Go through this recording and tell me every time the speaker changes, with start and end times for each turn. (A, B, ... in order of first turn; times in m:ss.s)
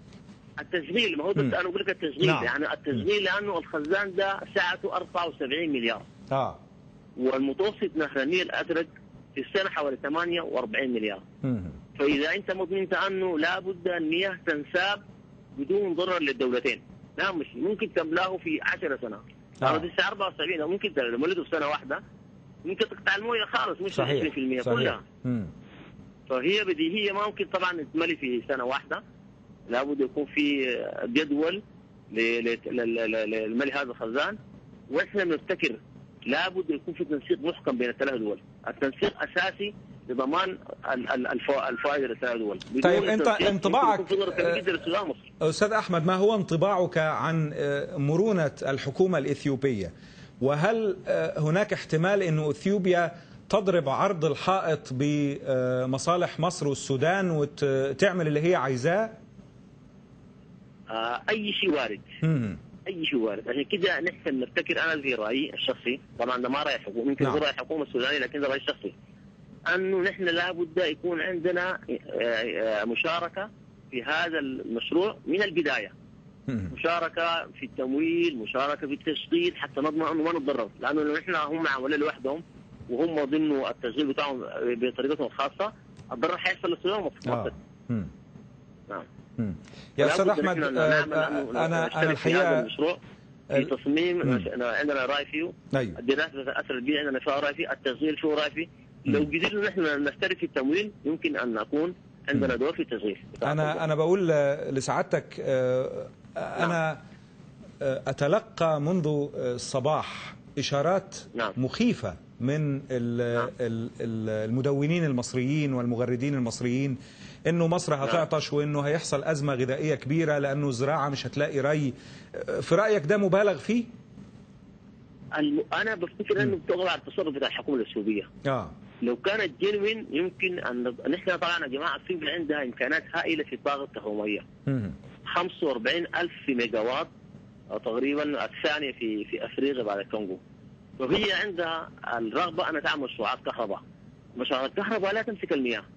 0:00.6-0:06.0 A
0:02.2-0:03.0 B
0:06.3-0:06.6 B
0:07.2-0:11.2 A
0:11.4-0:11.8 B
0:12.0-0:15.0 A
0:15.6-0:22.0 A
0:19.6-0:19.9 B
0:22.6-0:25.0 A
0:23.9-0:25.5 B
0:26.3-0:29.0 A
0:29.7-0:34.4 A
0:34.9-0:45.3 A
0:42.8-0:44.7 B
0:45.4-0:59.2 B
1:00.9-1:02.1 A
1:02.2-1:02.6 B
1:02.8-1:08.9 A
1:07.2-1:07.4 B
1:09.7-1:15.9 A
1:16.5-1:16.7 B
1:16.7-1:27.5 A
1:27.2-1:28.1 B
1:29.4-1:32.7 B
1:30.0-1:33.0 A
1:33.5-1:34.5 B
1:33.5-1:43.8 A
1:35.7-1:36.0 B
1:43.4-1:47.0 B
1:47.8-2:03.9 B
2:05.3-2:08.3 A
2:08.4-2:08.8 B
2:09.0-2:14.4 A
2:14.6-2:15.0 B
2:15.3-2:17.1 A
2:17.7-2:20.4 A
2:21.0-2:23.8 A
2:24.4-2:25.8 A